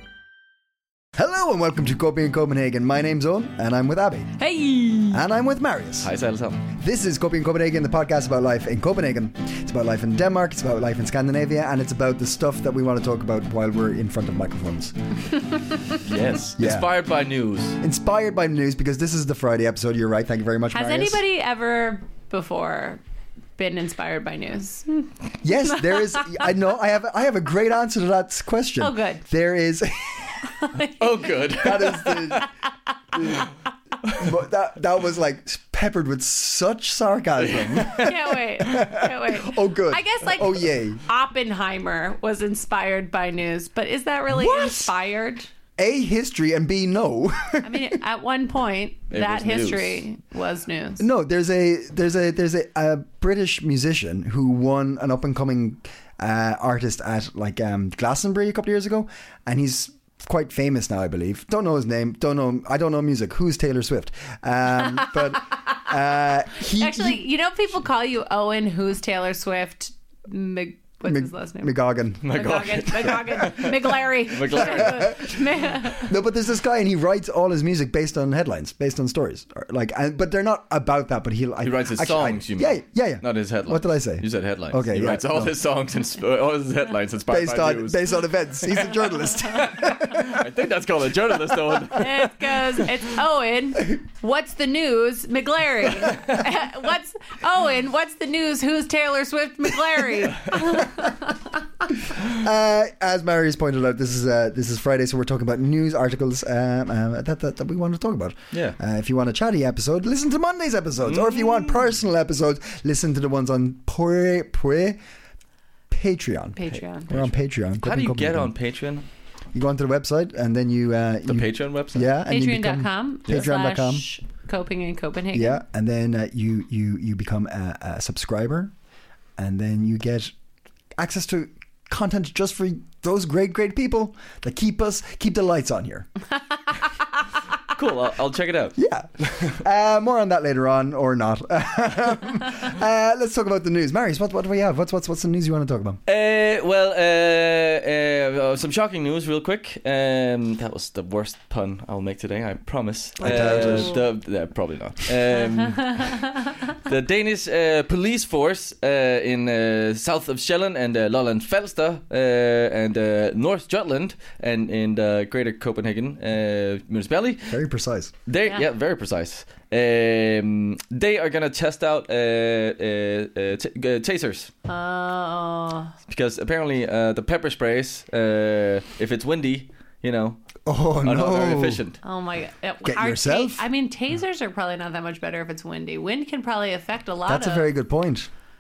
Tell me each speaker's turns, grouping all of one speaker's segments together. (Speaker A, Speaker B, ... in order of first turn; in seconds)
Speaker A: 1.2-4.3, 5.1-6.1, 6.8-14.9, 16.6-16.9, 17.8-21.2, 25.4-30.4, 31.6-32.5, 33.1-33.5, 34.1-41.0, 44.3-44.9, 45.8-48.0, 51.0-67.2, 71.0-73.8, 74.5-85.5, 87.3-90.4, 102.1-115.0, 115.9-118.5, 119.5-124.1, 125.3-128.7, 129.4-130.3, 131.0-136.1, 138.8-146.0, 153.2-154.0, 167.5-168.1, 180.7-181.8, 182.8-183.7, 187.3-188.3
Speaker B: 4.4-5.2, 20.7-23.0, 23.6-26.4, 28.8-29.2, 30.6-31.0, 37.9-45.5, 47.6-51.0, 66.5-76.1, 92.0-101.5, 116.6-117.1, 122.3-125.6, 153.3-153.9, 174.7-175.9, 182.0-187.7
Speaker C: 6.0-6.6, 16.0-17.8, 30.8-32.5, 37.4-38.0, 49.1-50.0, 72.2-73.8, 74.3-75.2, 81.6-92.1, 111.1-111.6, 116.7-119.1, 121.3-122.1, 137.7-139.6, 146.1-167.6, 168.3-174.5, 176.1-180.4, 181.0-182.0